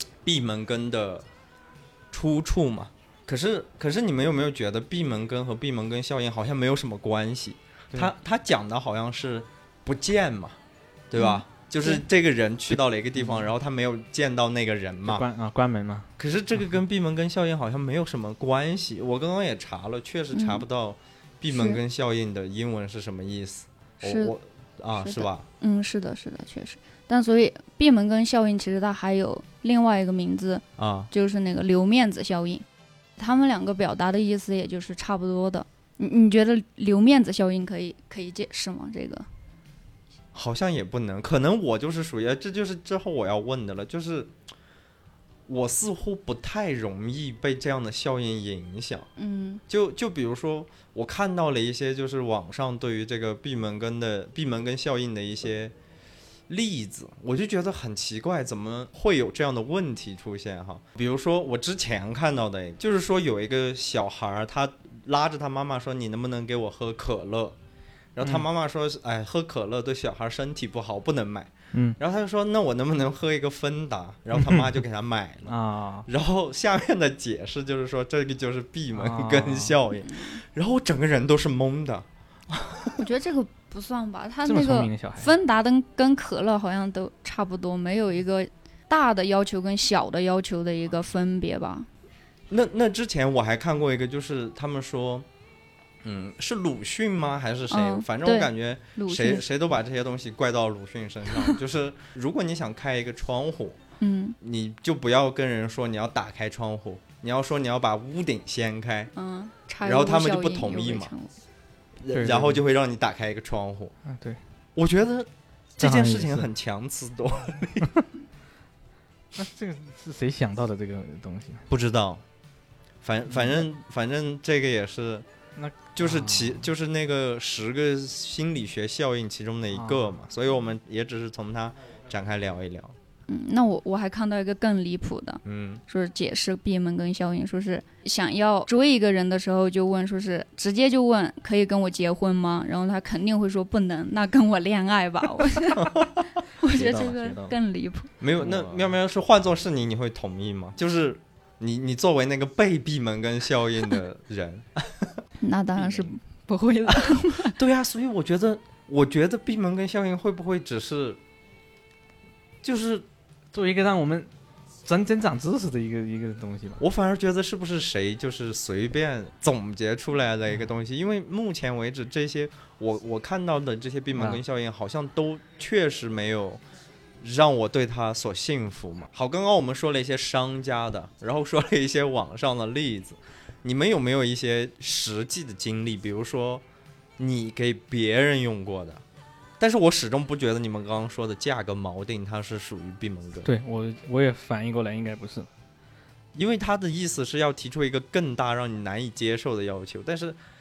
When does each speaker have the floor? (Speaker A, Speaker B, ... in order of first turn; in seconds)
Speaker A: 0.2-1.3, 2.1-10.6, 11.1-15.2, 16.2-25.5, 30.8-31.1, 40.3-44.3, 45.5-49.1, 49.7-55.8, 56.5-67.6, 68.2-83.0, 92.5-95.3, 96.0-103.8, 104.4-109.1, 109.8-111.1, 112.0-114.0, 114.8-118.0, 121.7-122.2, 123.0-125.3, 126.0-133.0, 135.4-135.8, 145.8-146.2, 148.2-155.2, 157.1-161.2, 162.6-163.1, 166.8-176.6, 177.2-186.6, 187.2-189.0, 189.6-193.5, 196.3-200.4
Speaker B: 11.2-12.0, 20.3-20.6, 21.5-21.8, 24.0-24.3, 25.0-32.6, 33.2-39.3, 49.2-49.6, 80.0-80.4, 83.0-91.9, 97.7-99.5, 104.0-104.4, 109.2-111.4, 133.3-145.9, 146.6-148.1, 155.4-157.6
Speaker C: 13.2-13.5, 15.1-16.1, 74.4-74.8, 75.5-76.1, 78.9-79.8, 84.5-85.3, 112.1-112.6, 114.1-114.4, 115.8-116.5, 119.3-121.7, 123.3-123.7, 125.6-126.7, 129.7-130.1, 146.7-147.6, 148.4-148.9, 155.8-156.1, 163.5-164.3, 164.8-166.8, 174.1-174.4, 193.4-195.5